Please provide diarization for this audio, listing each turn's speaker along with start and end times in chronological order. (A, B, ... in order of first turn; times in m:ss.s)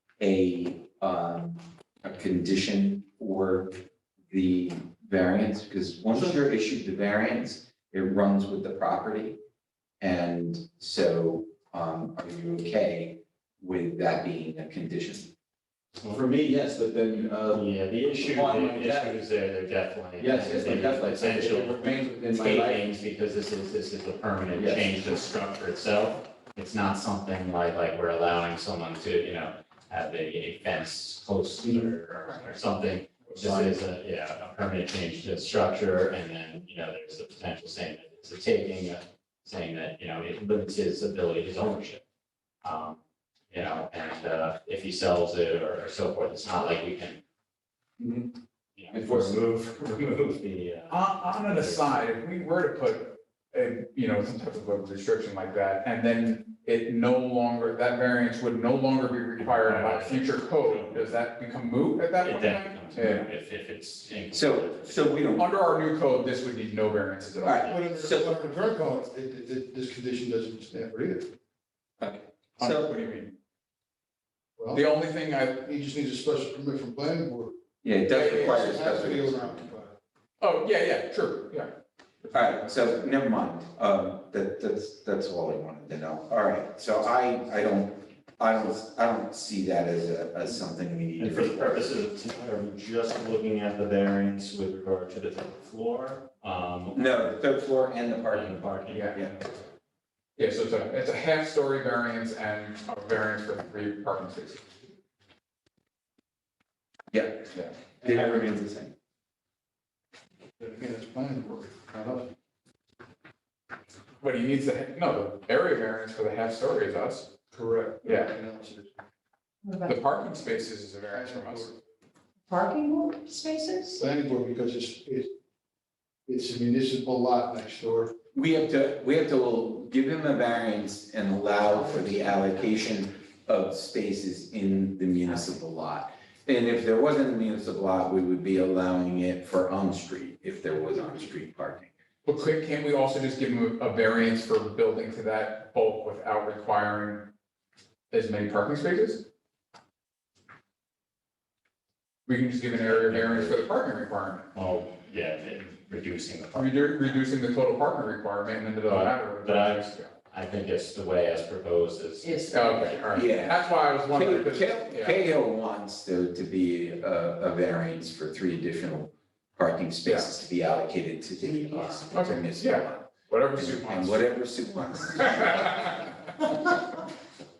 0:00.2-0:03.7 A
0:04.3-0:09.4 A
0:10.0-0:15.3 A
0:16.1-0:19.2 B
0:17.5-0:42.0 C
0:20.2-0:22.8 B
0:24.5-0:24.9 B
0:33.4-0:33.6 B
0:42.6-0:43.0 C
0:43.5-0:47.2 C
0:48.0-0:48.2 A
0:48.8-0:52.0 C
0:49.0-0:49.4 A
0:50.9-1:03.3 D
0:59.4-1:01.1 C
1:02.2-1:05.2 C
1:04.3-1:05.5 A
1:05.4-1:07.8 D
1:07.4-1:08.3 A
1:07.6-1:11.3 E
1:12.0-1:12.9 A
1:12.6-1:13.3 D
1:14.6-1:14.8 E
1:14.7-1:15.6 D
1:15.6-1:17.5 E
1:17.8-1:19.7 A
1:18.1-1:18.6 D
1:18.2-1:19.9 E
1:20.4-1:21.7 D
1:22.3-1:31.9 A
1:31.2-1:37.0 C
1:36.9-1:39.5 A
1:38.3-1:39.1 C
1:38.9-1:39.2 D
1:40.4-1:44.6 D
1:47.1-1:48.9 A
1:50.6-1:52.3 E
1:54.2-1:57.3 D
1:57.5-1:58.9 E
1:58.0-1:58.3 D
1:59.6-2:00.2 F
1:59.8-2:01.8 D
2:01.1-2:01.7 E
2:02.5-2:04.0 F
2:03.9-2:05.3 E
2:06.3-2:08.1 E
2:08.3-2:21.9 A
2:11.6-2:12.7 F
2:22.2-2:27.3 D
2:28.1-2:29.2 D
2:32.2-2:34.5 D
2:32.9-2:33.6 C
2:34.5-2:37.2 C
2:36.5-2:40.1 D
2:38.8-2:43.0 C
2:42.2-2:43.2 F
2:42.5-2:45.2 D
2:43.1-2:56.1 A
2:51.5-2:52.0 C
2:52.1-2:54.4 D